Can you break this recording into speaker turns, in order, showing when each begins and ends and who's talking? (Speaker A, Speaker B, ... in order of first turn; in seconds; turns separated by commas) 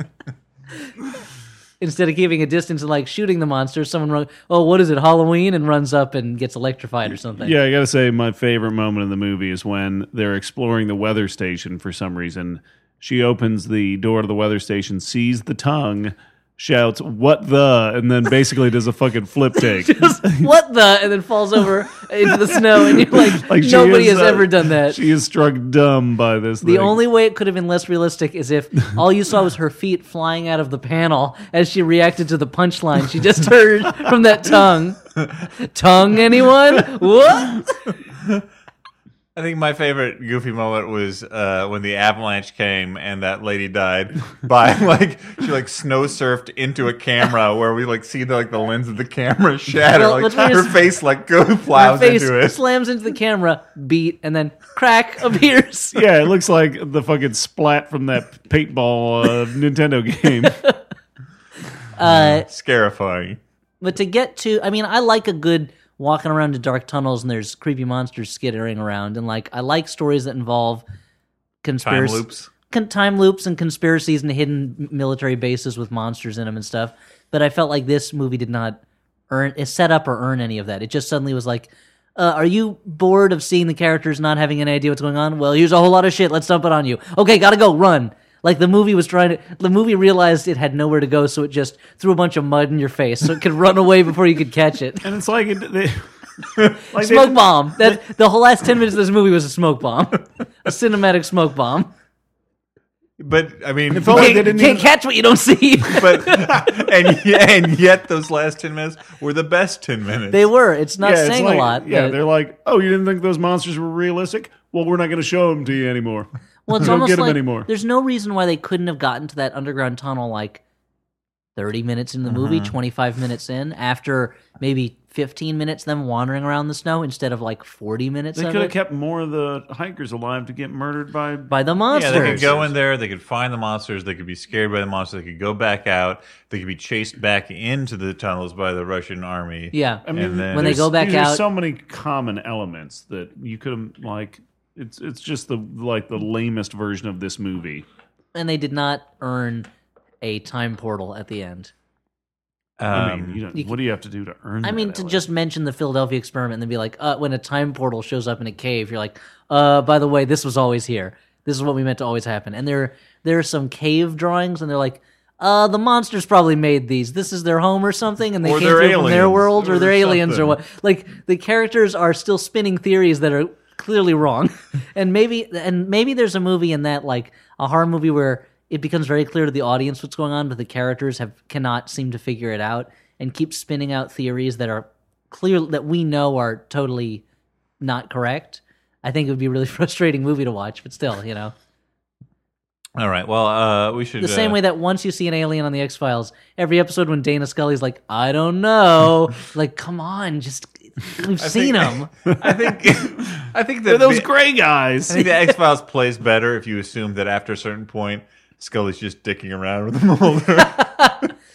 Speaker A: 1.8-7.5, Speaker B: 7.4-20.5, Speaker A: 19.6-25.0, Speaker B: 22.3-27.0, Speaker A: 26.6-35.1, Speaker A: 35.6-37.7, Speaker C: 39.3-52.6, Speaker A: 49.9-50.8, Speaker A: 51.7-56.0, Speaker B: 55.9-60.6, Speaker A: 60.5-60.8, Speaker A: 62.0-62.5, Speaker C: 62.0-63.4, Speaker A: 63.8-70.8, Speaker A: 71.6-95.1, Speaker C: 71.8-72.5, Speaker B: 95.0-96.1, Speaker B: 96.8-98.0, Speaker A: 96.9-101.9, Speaker C: 103.2-104.5, Speaker B: 103.9-104.9, Speaker A: 104.0-106.7, Speaker C: 105.9-110.5, Speaker A: 110.3-112.2, Speaker B: 111.0-117.7, Speaker A: 116.7-120.6, Speaker A: 121.5-128.7, Speaker C: 122.3-122.7, Speaker B: 128.3-132.7, Speaker A: 131.5-132.5, Speaker C: 131.9-140.9, Speaker A: 139.7-141.4, Speaker B: 140.1-147.8, Speaker A: 148.3-149.7, Speaker A: 150.2-151.7, Speaker C: 152.8-153.4, Speaker B: 152.9-155.2, Speaker A: 154.6-187.2, Speaker C: 168.4-170.6, Speaker A: 187.8-191.5, Speaker C: 192.9-194.6, Speaker A: 194.2-202.1, Speaker C: 201.4-204.3, Speaker B: 203.8-205.4, Speaker C: 205.1-210.8, Speaker A: 210.6-211.3